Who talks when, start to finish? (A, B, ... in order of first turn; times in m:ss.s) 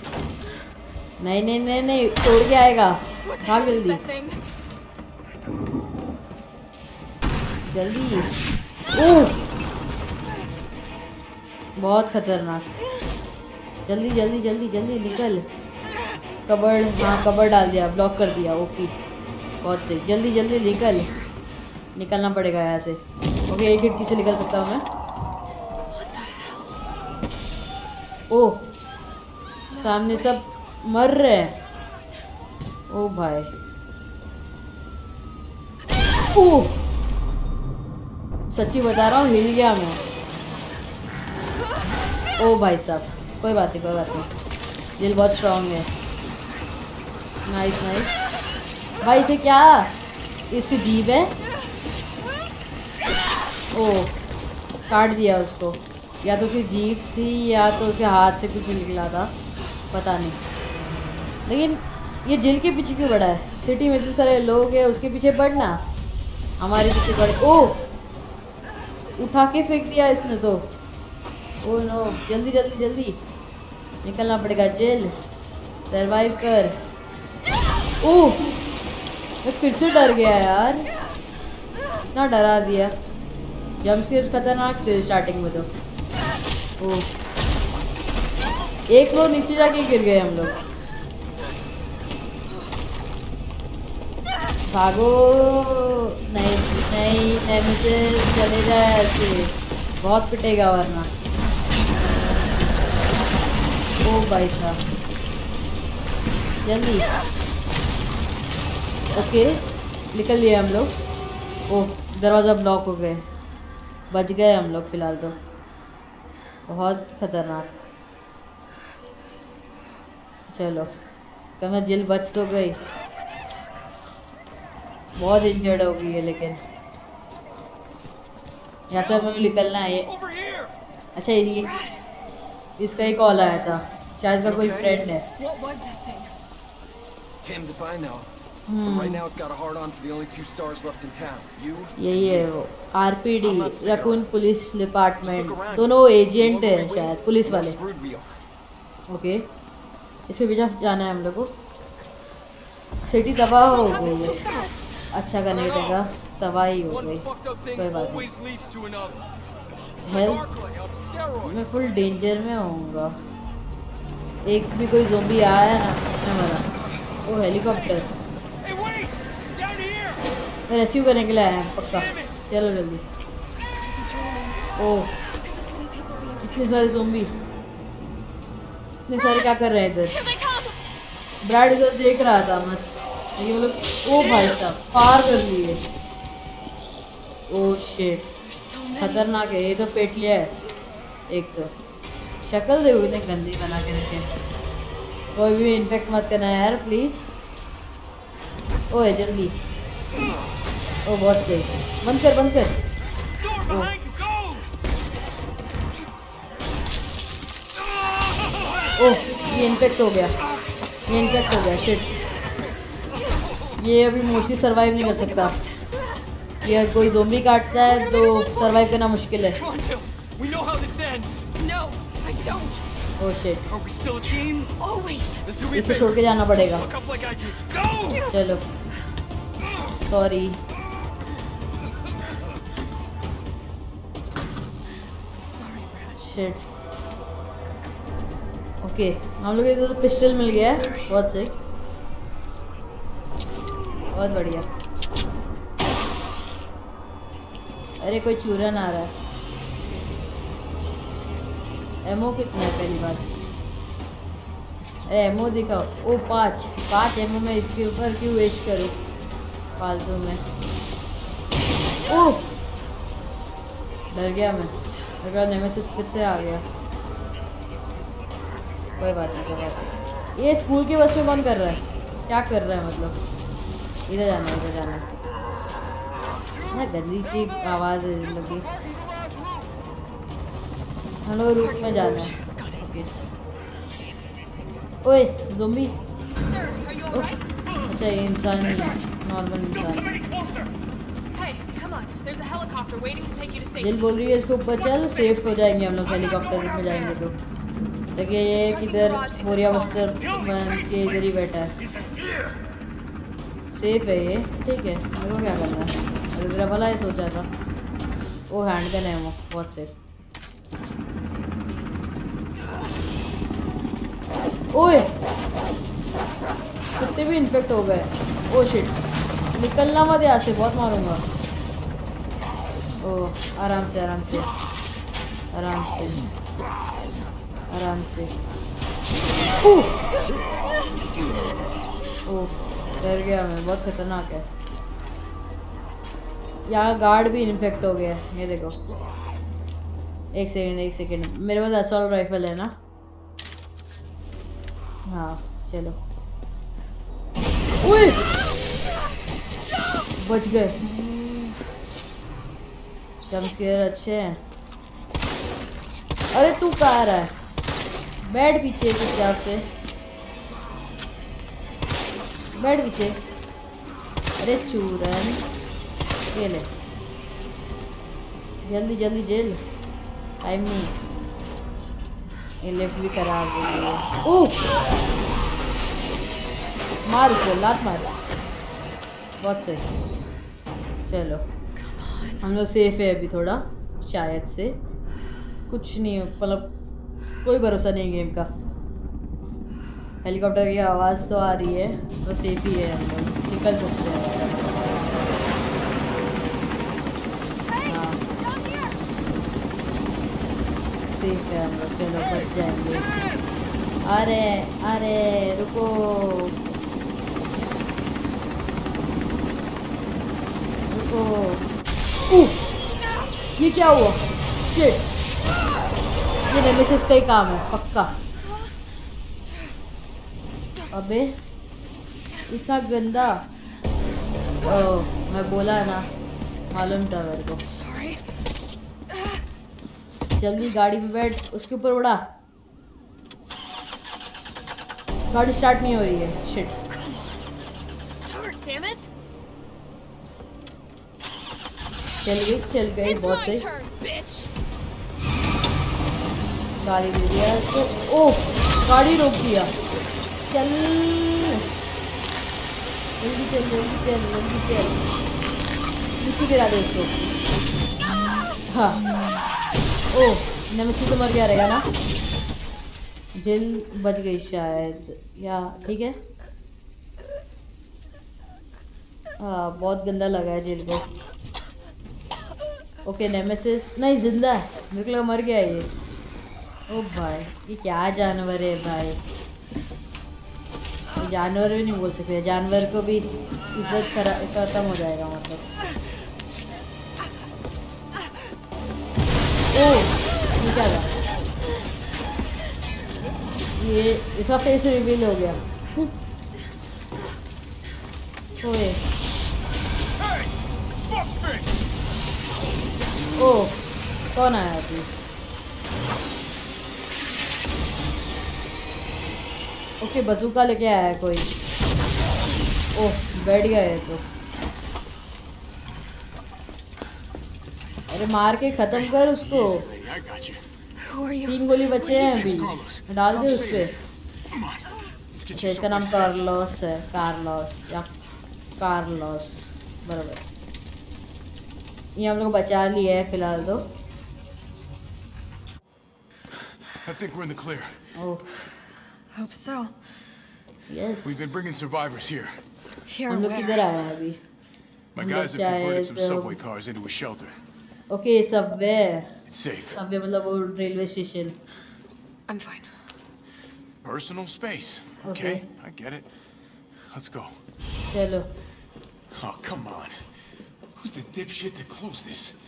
0:01.2-0:04.0 A
0:03.2-0:04.4 B
0:07.7-0:08.3 A
0:08.9-0:09.4 A
0:11.8-0:12.7 A
0:13.9-0:15.4 A
0:16.5-0:18.9 A
0:19.6-0:21.1 A
0:21.0-0:21.4 B
0:22.0-0:24.8 A
0:25.9-0:26.8 B
0:28.3-0:28.6 A
0:29.7-0:30.4 B
0:29.8-0:31.5 A
0:32.9-0:33.5 A
0:36.3-0:36.8 A
0:38.5-0:40.0 A
0:42.4-0:44.3 A
0:45.0-0:45.9 A
0:47.4-0:48.1 A
0:49.0-0:49.9 A
0:50.5-0:51.3 A
0:53.7-0:54.1 A
0:54.9-0:59.3 A
0:59.9-1:00.4 A
1:01.4-1:05.8 A
1:06.6-1:07.8 A
1:09.2-1:10.6 A
1:11.6-1:13.2 A
1:14.0-1:15.1 A
1:15.9-1:16.7 A
1:18.0-1:18.5 A
1:19.4-1:20.8 A
1:22.1-1:22.9 A
1:23.8-1:25.7 A
1:26.8-1:27.1 A
1:28.9-1:30.6 A
1:34.7-1:41.1 A
1:44.0-1:44.8 A
1:46.6-1:47.1 A
1:49.1-1:49.6 A
1:50.1-1:50.9 A
1:51.7-1:53.2 A
1:54.1-1:55.4 A
1:56.7-1:57.8 A
2:00.5-2:00.9 A
2:01.6-2:02.8 A
2:05.2-2:06.6 A
2:08.9-2:10.1 A
2:08.9-2:09.3 C
2:10.0-2:10.7 C
2:11.2-2:11.7 A
2:11.6-2:12.0 B
2:12.8-2:15.2 A
2:14.4-2:15.0 C
2:15.4-2:16.3 B
2:17.4-2:18.3 C
2:18.7-2:19.2 A
2:18.8-2:22.5 C
2:22.0-2:27.8 A
2:23.4-2:24.2 C
2:25.2-2:28.3 C
2:29.1-2:29.4 A
2:30.3-2:31.5 A
2:33.1-2:34.4 A
2:33.6-2:35.0 B
2:35.1-2:37.2 A
2:35.5-2:36.0 C
2:36.9-2:39.3 C
2:37.8-2:38.3 A
2:40.0-2:41.9 C
2:40.0-2:40.4 A
2:41.4-2:43.1 A
2:44.5-2:46.6 A
2:47.2-2:48.1 A
2:47.6-2:50.3 C
2:50.7-2:53.0 A
2:51.9-2:52.4 C
2:53.7-2:57.2 B
2:54.8-2:55.1 A
2:56.4-2:57.3 A
2:59.1-3:00.2 A
2:59.2-2:59.4 B
3:00.1-3:00.8 B
3:01.4-3:05.8 A
3:07.5-3:08.2 A
3:08.4-3:09.3 B
3:09.0-3:10.5 A
3:11.3-3:11.7 A
3:12.4-3:14.2 A
3:15.3-3:17.2 A
3:18.9-3:19.6 A
3:21.0-3:22.7 A
3:23.4-3:24.7 C
3:27.8-3:28.7 C
3:29.0-3:30.4 A
3:31.1-3:32.0 A
3:32.6-3:33.8 C
3:33.8-3:35.6 A
3:35.0-3:36.1 B
3:36.6-3:39.6 A
3:39.5-3:41.5 C
3:41.6-3:42.8 B
3:43.2-3:43.6 A
3:43.6-3:44.7 C
3:44.2-3:45.5 B
3:45.4-3:48.3 C
3:45.7-3:46.9 A
3:48.3-3:48.6 A
3:49.6-3:49.9 C
3:50.0-3:50.6 A
3:55.4-3:56.2 B
3:56.2-3:56.6 A
3:58.8-4:01.5 A
4:00.7-4:01.2 B
4:04.1-4:04.6 A
4:08.0-4:09.1 A
4:12.0-4:13.3 A
4:15.1-4:18.9 A
4:19.8-4:20.4 A
4:22.1-4:22.4 A
4:24.1-4:26.6 A
4:29.0-4:33.2 A
4:34.1-4:35.0 A
4:36.7-4:38.6 A
4:41.2-4:43.1 A
4:41.6-4:43.0 B
4:45.0-4:45.9 A
4:46.4-4:47.5 B
4:47.9-4:50.2 A
4:48.6-4:49.0 C
4:50.0-4:50.7 C
4:51.3-4:55.6 B
4:53.8-4:57.3 A
4:58.2-5:01.7 A
4:58.7-5:00.2 B
5:00.2-5:00.8 C
5:03.7-5:07.5 A
5:08.5-5:09.9 A
5:14.7-5:15.1 A
5:17.0-5:19.0 A
5:19.5-5:21.2 A
5:23.0-5:24.5 A
5:25.5-5:26.2 A
5:27.7-5:28.3 A
5:29.6-5:29.9 A
5:32.2-5:34.4 A
5:36.7-5:38.8 A
5:40.3-5:42.7 A
5:45.1-5:46.0 A
5:47.8-5:48.2 A
5:50.2-5:50.8 A
5:50.8-5:51.6 B
5:53.2-5:53.6 B
5:53.3-5:54.4 A
5:56.3-5:57.3 A
5:58.3-5:59.6 A
6:02.6-6:03.2 A
6:04.4-6:05.4 A
6:06.3-6:06.6 A
6:08.6-6:09.6 A
6:10.4-6:11.0 A
6:12.6-6:14.6 A
6:17.0-6:18.1 A
6:19.4-6:19.9 A
6:21.1-6:21.4 A
6:21.8-6:22.4 B
6:22.4-6:24.8 A
6:25.7-6:26.7 A
6:27.4-6:28.5 A
6:30.2-6:34.9 A
6:37.8-6:38.2 A
6:38.4-6:38.9 B
6:41.1-6:43.0 A
6:44.1-6:46.5 A
6:50.9-6:51.7 A
6:52.3-6:52.6 A
6:53.6-6:55.0 A
6:56.5-6:58.1 A
7:00.9-7:01.3 A
7:02.5-7:03.4 A
7:04.6-7:06.0 A
7:06.7-7:07.6 A
7:07.6-7:08.2 B
7:09.1-7:09.4 B
7:10.4-7:12.2 A
7:15.3-7:16.7 A
7:16.8-7:17.4 B
7:18.0-7:19.1 B
7:22.2-7:23.6 A
7:23.0-7:24.5 B
7:26.8-7:29.7 A
7:30.5-7:31.6 A
7:33.2-7:35.0 A
7:36.2-7:37.2 A
7:38.7-7:39.0 A
7:40.1-7:41.9 A
7:43.4-7:46.1 A
7:49.4-7:51.1 A
7:53.0-7:55.9 A
7:56.9-7:59.2 A
8:01.2-8:05.6 A
8:09.7-8:11.1 A
8:13.8-8:16.1 A
8:18.6-8:19.0 A
8:20.2-8:20.5 D
8:21.1-8:21.8 D
8:23.4-8:23.7 A
8:24.3-8:25.1 A
8:30.0-8:31.5 A
8:33.0-8:34.2 A
8:38.1-8:39.8 A
8:38.9-8:40.7 D
8:41.0-8:41.7 B
8:41.5-8:43.9 A
8:42.0-8:44.0 D
8:44.5-8:46.4 D
8:45.5-8:48.1 A
8:48.8-8:50.4 A
8:52.2-8:53.8 A
8:57.0-8:58.0 D
8:58.1-8:58.5 A
8:59.3-8:59.9 B
9:00.9-9:01.6 A
9:01.2-9:02.6 D
9:03.1-9:03.9 B
9:03.3-9:04.4 A
9:05.1-9:07.6 D
9:05.2-9:06.6 A
9:08.1-9:09.3 A
9:09.4-9:10.0 D
9:09.9-9:11.5 A
9:12.5-9:12.9 B
9:14.0-9:16.3 D
9:15.2-9:15.6 A
9:17.1-9:17.5 D
9:18.1-9:18.4 A
9:19.3-9:20.2 D
9:21.0-9:22.6 D